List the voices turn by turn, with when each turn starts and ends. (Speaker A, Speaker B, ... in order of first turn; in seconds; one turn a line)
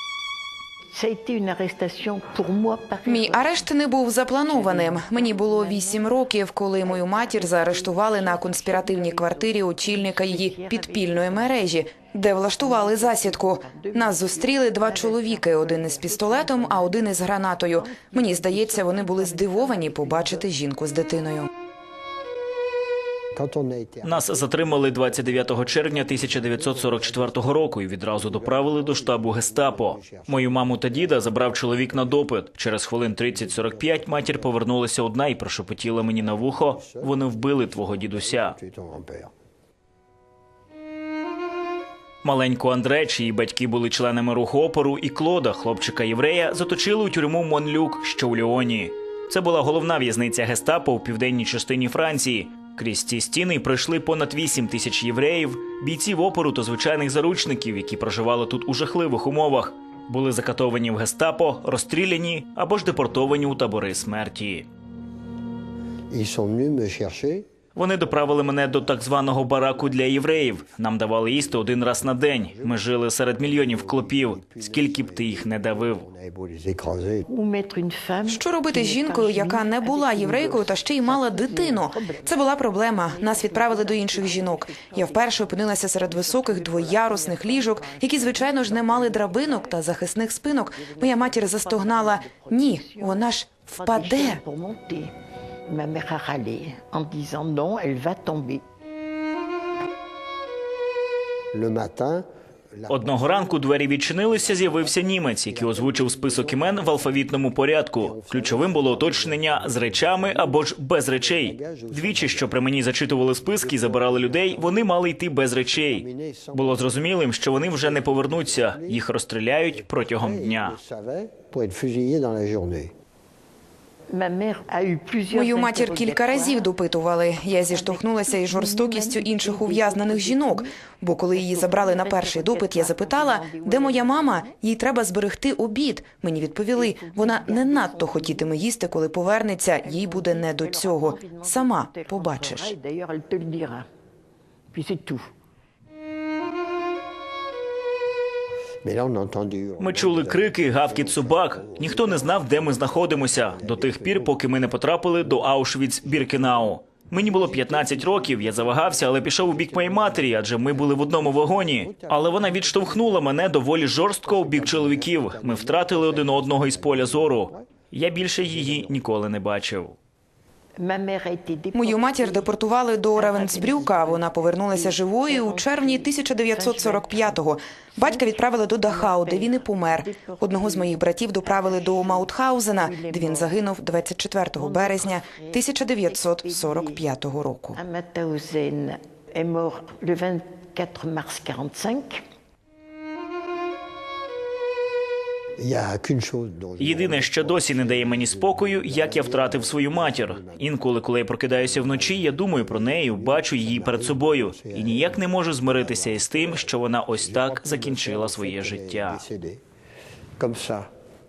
Speaker A: 0.9-3.7
Speaker B: 3.0-21.5
Speaker A: 4.5-6.1
Speaker A: 6.8-11.8
Speaker A: 12.5-20.5
Speaker C: 23.3-32.3
Speaker D: 24.0-38.5
Speaker C: 33.1-34.6
Speaker C: 36.1-39.3
Speaker D: 42.2-64.7
Speaker C: 66.1-67.5
Speaker D: 67.7-76.1
Speaker C: 68.0-70.8
Speaker C: 71.3-72.8
Speaker C: 73.4-77.3
Speaker A: 77.3-89.8
Speaker B: 78.2-94.4
Speaker A: 90.7-95.1
Speaker A: 95.7-98.6
Speaker C: 101.5-107.4
Speaker D: 102.9-120.8
Speaker C: 108.0-112.7
Speaker C: 113.3-114.8
Speaker C: 115.7-117.1
Speaker C: 117.7-119.0
Speaker C: 119.7-122.9
Speaker A: 124.1-126.7
Speaker B: 125.3-142.7
Speaker A: 127.7-130.7
Speaker A: 131.3-134.5
Speaker A: 136.7-138.6
Speaker A: 139.8-143.8
Speaker A: 144.7-145.3
Speaker C: 148.8-154.6
Speaker D: 149.8-170.0
Speaker C: 155.2-163.3
Speaker C: 164.2-167.7
Speaker C: 168.4-169.0
Speaker A: 170.8-172.5
Speaker B: 171.7-187.8
Speaker A: 173.1-177.4
Speaker A: 177.9-183.6
Speaker A: 184.5-187.0
Speaker A: 187.7-192.2
Speaker C: 195.6-200.7
Speaker D: 196.8-209.2
Speaker C: 201.5-209.6
Speaker C: 210.4-210.9